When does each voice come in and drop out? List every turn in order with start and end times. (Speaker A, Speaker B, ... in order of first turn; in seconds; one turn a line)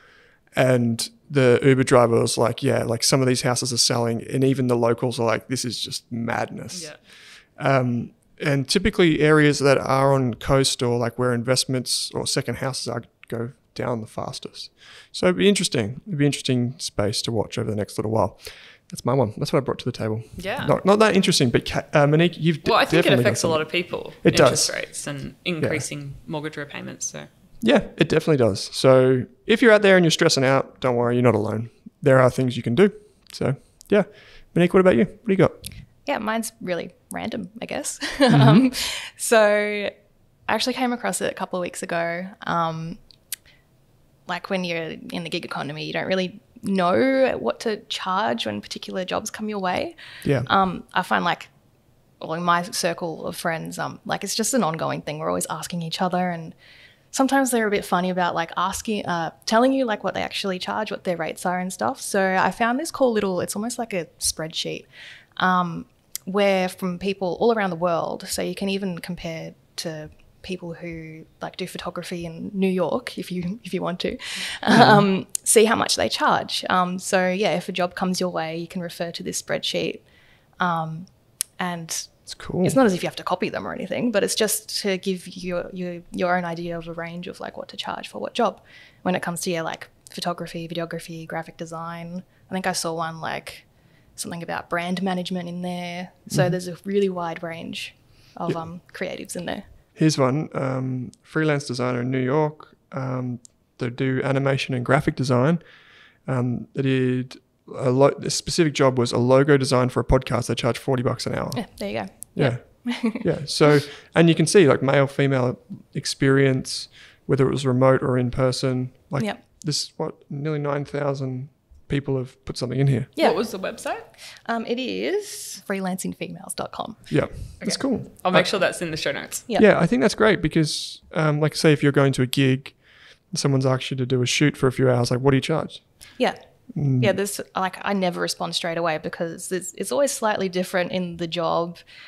Speaker A: 0.5-24.9
Speaker B: 6.7-7.0
Speaker B: 20.4-20.7
Speaker B: 22.6-27.3
Speaker A: 27.6-35.5
Speaker C: 36.0-39.9
Speaker A: 38.3-38.6
Speaker C: 40.5-43.0
Speaker C: 44.3-51.5
Speaker C: 52.2-56.5
Speaker C: 57.1-64.9
Speaker C: 65.4-80.0
Speaker A: 74.7-75.0
Speaker C: 80.6-99.6
Speaker A: 82.3-82.8
Speaker A: 96.3-96.6
Speaker A: 100.0-105.6
Speaker A: 106.2-123.1
Speaker C: 111.5-113.5
Speaker C: 123.2-123.6
Speaker B: 123.2-124.0
Speaker C: 124.4-127.2
Speaker A: 127.1-128.5
Speaker B: 127.6-129.5
Speaker A: 129.5-136.1
Speaker C: 136.2-141.8
Speaker A: 136.7-137.2